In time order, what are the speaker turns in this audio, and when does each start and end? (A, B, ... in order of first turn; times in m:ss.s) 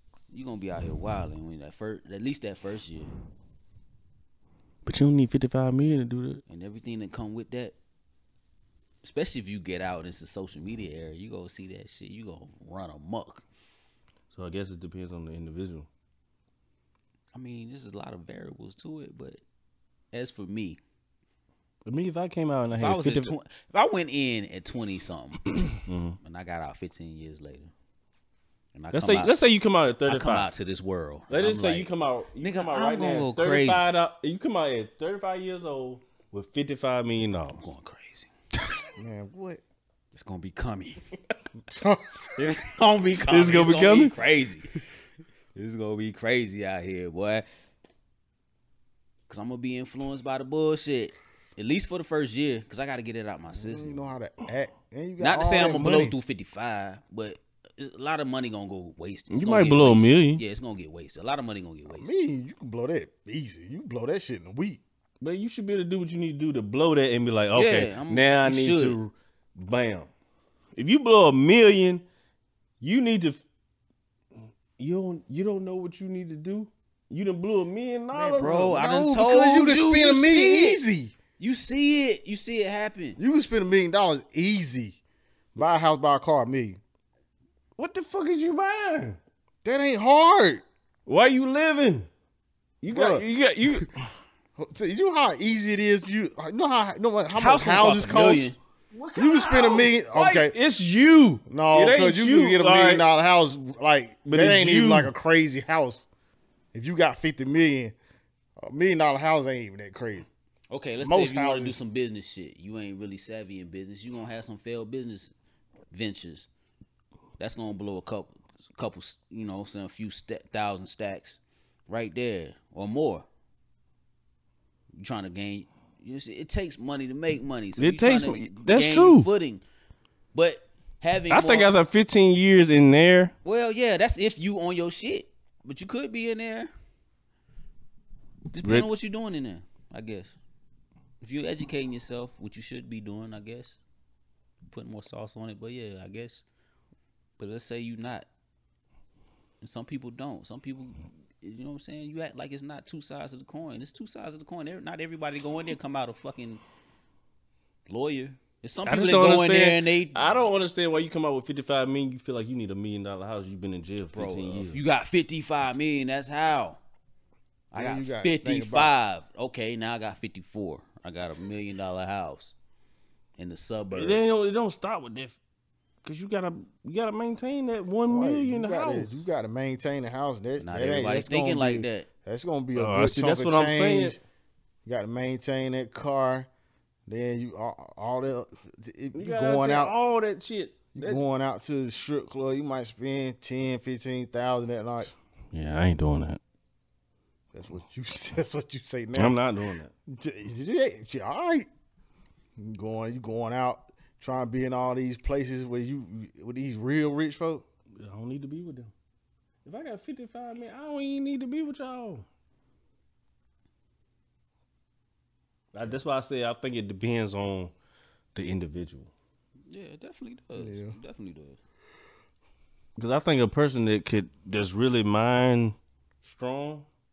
0:00.3-0:03.1 A
0:04.8-0:06.4 B
0:06.5-0:07.8 A
0:09.0-0:13.4 A
0:14.3-0:15.9 B
0:17.3-0:19.4 A
0:20.1-0:20.8 A
0:21.8-0:23.4 B
0:22.7-0:25.5 A
0:25.8-0:26.2 B
0:26.2-0:27.7 A
0:28.7-0:29.3 A
0:28.9-0:30.5 B
0:30.1-0:33.9 A
0:31.3-0:37.7 B
0:37.5-0:38.3 A
0:38.9-0:39.6 C
0:40.1-0:41.0 A
0:41.7-0:42.5 C
0:42.3-0:44.7 A
0:43.3-0:44.2 B
0:45.5-0:47.4 A
0:49.3-0:54.0 A
0:53.5-0:56.2 C
0:55.2-1:02.1 A
0:59.3-1:00.4 B
1:01.9-1:04.8 C
1:05.2-1:10.1 B
1:07.5-1:09.0 A
1:10.8-1:12.0 B
1:12.8-1:13.4 B
1:14.8-1:18.7 B
1:18.1-1:21.1 C
1:18.4-1:20.8 A
1:21.4-1:23.2 A
1:23.2-1:25.0 C
1:25.5-1:26.8 C
1:27.8-1:29.2 B
1:29.6-1:30.6 C
1:31.0-1:32.1 B
1:32.8-1:34.0 B
1:32.9-1:33.2 C
1:34.6-1:38.5 C
1:37.3-1:38.6 A
1:38.9-1:43.1 B
1:39.1-1:40.5 C
1:41.5-1:46.0 C
1:44.2-1:45.1 B
1:46.7-1:47.9 C
1:48.6-1:50.3 C
1:50.7-1:55.3 A
1:51.0-1:51.8 C
1:55.9-1:56.5 A
1:57.4-2:03.2 A
2:05.0-2:09.6 A
2:07.8-2:09.3 B
2:10.3-2:11.7 A
2:11.3-2:13.3 B
2:13.4-2:16.7 A
2:18.5-2:20.4 A
2:21.2-2:23.8 A
2:24.7-2:26.4 A
2:27.4-2:28.3 A
2:29.6-2:36.6 A
2:37.9-2:40.4 A
2:38.8-2:44.8 B
2:44.1-2:46.8 A
2:47.7-2:52.5 A
2:47.7-2:48.9 C
2:53.4-2:54.2 A
2:53.9-2:55.4 B
2:56.0-2:59.2 B
2:58.1-3:04.2 C
3:00.6-3:02.1 A
3:02.7-3:04.2 B
3:04.8-3:06.5 C
3:07.1-3:09.9 C
3:09.1-3:11.2 B
3:10.9-3:15.1 C
3:15.5-3:16.4 B
3:17.5-3:19.4 C
3:19.1-3:19.9 B
3:20.1-3:21.6 C
3:22.6-3:27.6 C
3:28.0-3:28.9 B
3:29.6-3:32.2 B
3:35.7-3:37.7 B
3:38.3-3:39.1 B
3:39.7-3:41.6 A
3:40.6-3:41.0 C
3:43.0-3:46.9 B